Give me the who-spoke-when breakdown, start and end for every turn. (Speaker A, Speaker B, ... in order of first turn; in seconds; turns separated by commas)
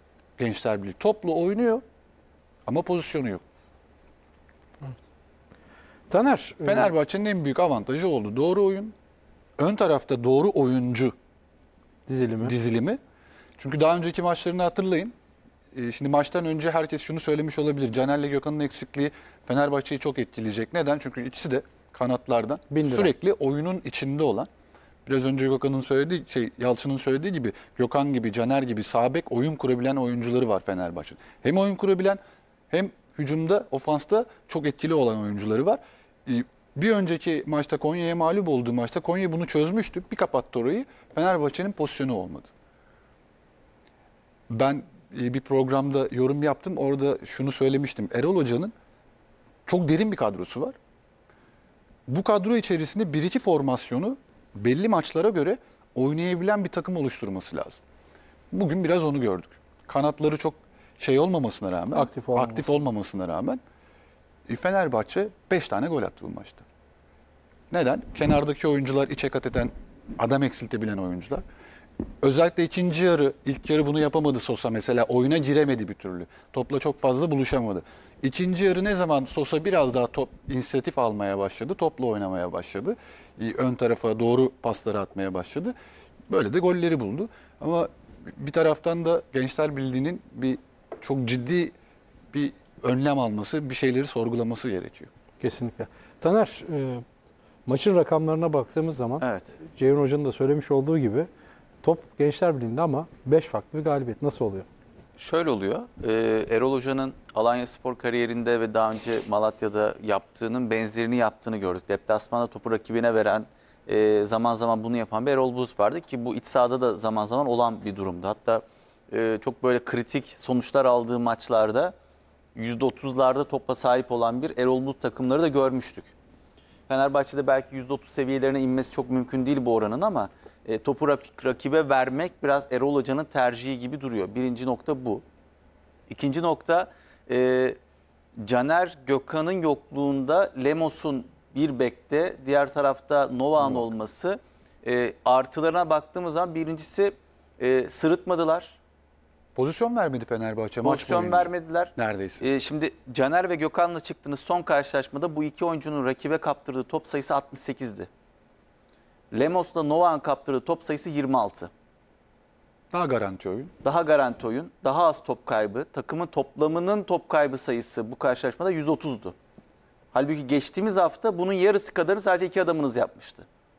Speaker A: 0.4-1.8, Speaker A: 2.7-3.4, Speaker B: 6.1-6.9, Speaker A: 6.6-8.9, Speaker A: 9.6-11.1, Speaker B: 12.1-12.6, Speaker A: 12.4-13.0, Speaker A: 13.6-15.1, Speaker A: 15.7-24.5, Speaker B: 22.7-23.1, Speaker A: 25.1-42.5, Speaker A: 44.5-48.7, Speaker A: 49.7-50.8, Speaker A: 52.1-57.8, Speaker A: 58.5-63.6, Speaker B: 62.0-62.7, Speaker A: 64.5-66.7, Speaker A: 67.7-71.4, Speaker A: 72.2-85.8, Speaker A: 86.3-91.7, Speaker A: 92.3-95.1, Speaker B: 95.4-97.0, Speaker B: 97.7-101.3, Speaker C: 99.2-99.6, Speaker B: 101.8-104.7, Speaker C: 105.2-122.0, Speaker C: 122.5-126.1, Speaker C: 126.9-135.2, Speaker C: 136.1-137.8, Speaker C: 138.4-148.8, Speaker A: 149.6-152.4, Speaker C: 150.8-158.1, Speaker C: 159.3-161.7, Speaker A: 162.9-163.7, Speaker C: 163.8-169.3, Speaker C: 170.1-173.5